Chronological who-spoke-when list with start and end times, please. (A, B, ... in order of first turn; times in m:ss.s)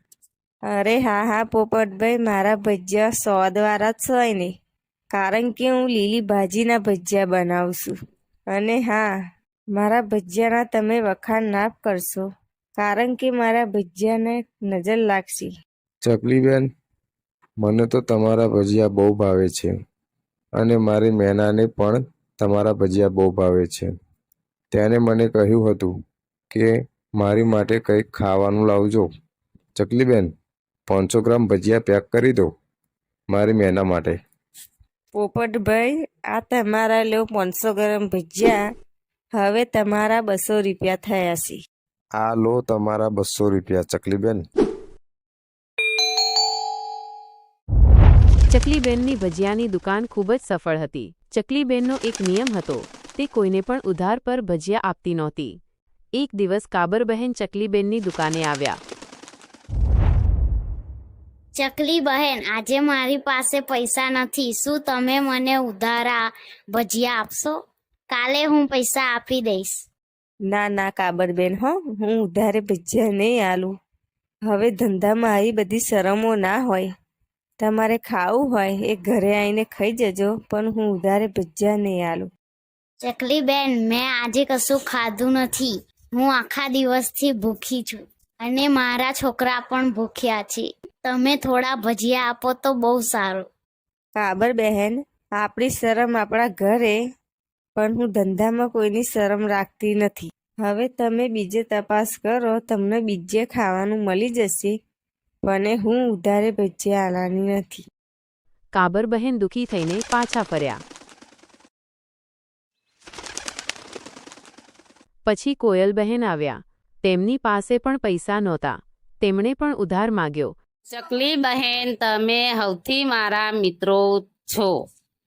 0:00.7-0:04.5 A
0:05.1-0:08.0 A
0:08.5-0:09.1 A
0:09.7-0:12.3 A
0:12.8-0:15.5 A
0:16.0-0:16.7 B
0:17.6-0:19.7 B
0:20.6-0:23.9 B
0:24.7-0:25.9 B
0:26.5-0:29.1 B
0:29.8-0:30.3 B
0:30.9-0:32.5 B
0:33.3-0:34.2 B
0:35.2-0:38.6 A
0:39.4-0:41.6 A
0:42.2-0:44.4 B
0:48.5-0:55.6 C
0:56.2-0:58.8 C
1:01.6-1:07.6 D
1:08.1-1:09.8 D
1:10.5-1:13.7 A
1:14.5-1:16.9 A
1:17.6-1:22.3 A
1:23.0-1:33.5 D
1:34.2-1:37.0 A
1:37.8-1:44.8 A
1:45.4-1:47.8 A
1:48.7-1:50.8 C
1:55.3-2:00.6 C
2:00.9-2:04.7 E